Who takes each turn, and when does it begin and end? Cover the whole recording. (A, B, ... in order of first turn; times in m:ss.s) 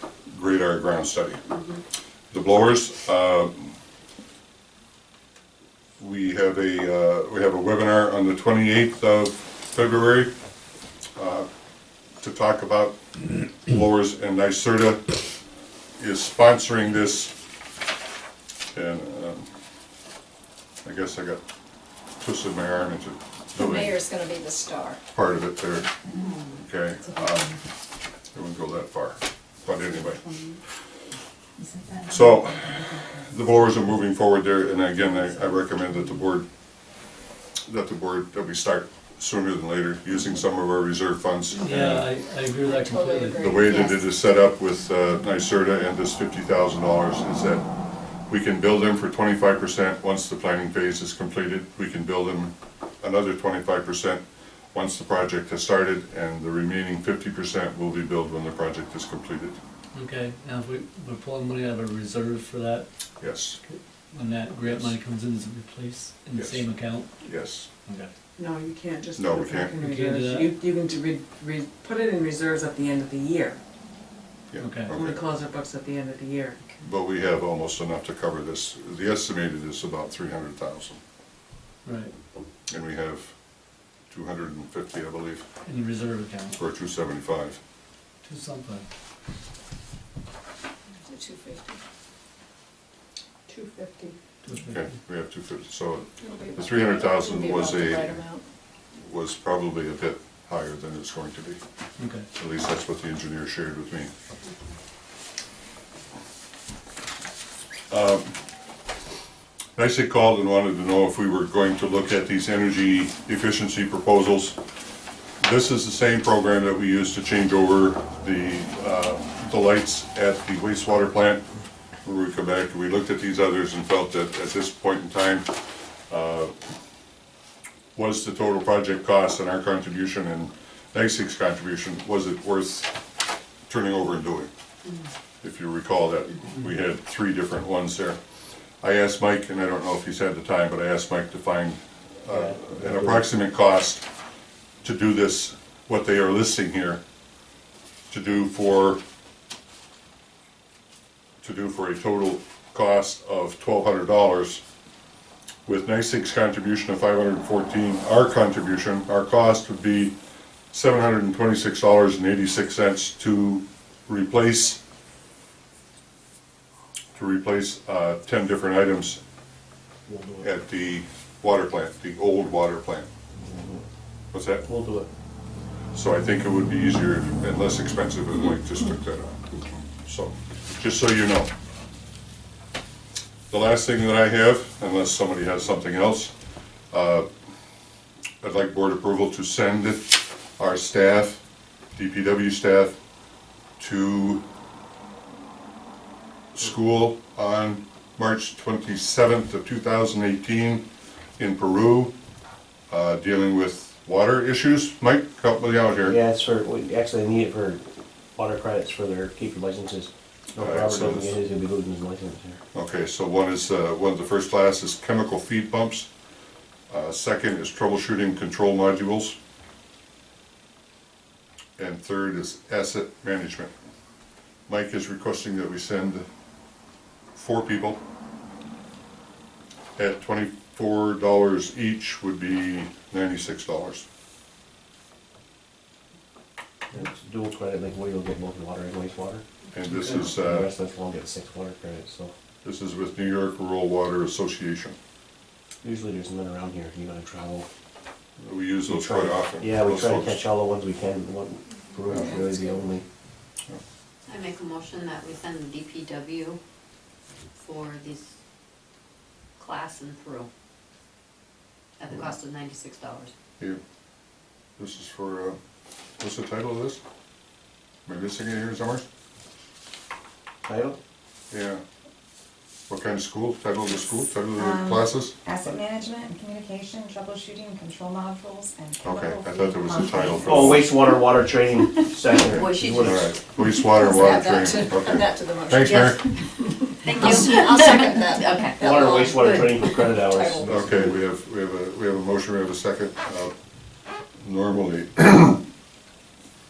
0:00.3-0:01.4 A
0:01.5-0:01.8 B
0:02.3-0:03.7 A
0:06.0-0:10.3 A
0:11.2-0:11.5 A
0:12.2-0:15.1 A
0:16.0-0:17.3 A
0:18.7-0:19.5 A
0:20.8-0:21.4 A
0:22.2-0:24.0 A
0:23.6-0:25.0 C
0:25.1-0:25.9 A
0:26.6-0:27.6 A
0:28.3-0:30.2 A
0:32.1-0:36.4 A
0:37.7-0:42.1 A
0:41.5-0:43.5 D
0:42.7-0:43.7 C
0:43.4-0:47.6 A
0:43.6-0:44.0 B
0:48.3-0:54.2 A
0:54.7-0:59.6 A
0:59.9-1:02.9 D
1:03.2-1:03.6 A
1:03.5-1:07.1 D
1:06.3-1:06.6 A
1:07.2-1:07.7 A
1:07.8-1:08.1 D
1:08.4-1:13.6 E
1:09.2-1:09.7 A
1:09.7-1:10.6 D
1:14.5-1:15.2 A
1:14.6-1:15.0 D
1:15.0-1:16.6 E
1:16.8-1:21.0 A
1:21.8-1:22.1 D
1:22.7-1:23.3 A
1:24.1-1:25.4 A
1:25.6-1:26.6 D
1:26.5-1:27.6 A
1:28.2-1:28.8 D
1:31.0-1:31.8 C
1:33.7-1:34.0 E
1:34.4-1:35.0 D
1:34.6-1:38.2 A
1:36.2-1:37.1 C
1:37.3-1:37.6 E
1:39.0-1:41.6 A
1:42.0-1:42.3 D
1:42.3-1:44.1 A
1:47.9-1:48.3 A
1:49.8-1:54.6 A
1:55.4-2:01.4 A
2:02.0-2:05.5 A
2:06.1-2:06.5 A
2:07.9-2:12.9 A
2:13.7-2:14.5 A
2:15.4-2:18.2 A
2:18.8-2:24.0 A
2:22.3-2:23.3 F
2:24.8-2:27.0 A
2:28.1-2:29.0 A
2:31.4-2:34.6 A
2:35.6-2:40.1 A
2:40.7-2:44.8 A
2:47.1-2:49.2 A
2:50.1-2:50.5 F
2:50.4-2:53.1 A
2:53.4-2:53.8 F
2:54.3-2:54.7 A
2:54.6-2:55.1 F
2:55.9-3:01.5 A
3:03.5-3:06.3 A
3:06.9-3:07.2 A
3:08.4-3:11.4 A
3:12.0-3:13.0 A
3:13.8-3:14.4 A
3:16.5-3:20.8 A
3:21.4-3:22.1 A
3:22.9-3:26.2 A
3:26.0-3:27.8 F
3:28.3-3:32.6 F
3:30.6-3:31.3 A
3:32.7-3:36.1 A
3:36.9-3:39.4 A
3:41.8-3:43.7 A
3:44.7-3:46.2 A
3:47.3-3:48.0 A
3:50.0-3:54.0 A
3:56.9-3:59.4 F
3:59.7-4:00.7 A
3:59.9-4:00.2 D
4:00.0-4:02.3 F
4:02.6-4:05.0 A
4:05.8-4:07.7 F
4:08.4-4:10.4 A
4:08.9-4:13.0 F
4:12.1-4:12.4 A
4:14.3-4:16.6 B
4:17.6-4:18.3 B
4:19.6-4:20.5 B
4:22.0-4:23.3 B
4:24.8-4:25.6 A
4:26.2-4:27.0 A
4:28.0-4:29.0 A
4:30.6-4:31.0 F
4:31.5-4:31.8 A
4:32.9-4:35.3 A
4:34.5-4:40.8 G
4:39.0-4:40.9 A
4:40.4-4:43.3 F
4:42.5-4:43.2 B
4:42.5-4:46.3 A
4:43.7-4:46.3 C
4:47.0-4:50.2 B
4:47.0-4:49.1 C
4:48.8-4:51.2 F
4:50.3-4:50.8 C
4:50.6-4:53.5 A
4:54.4-4:55.6 A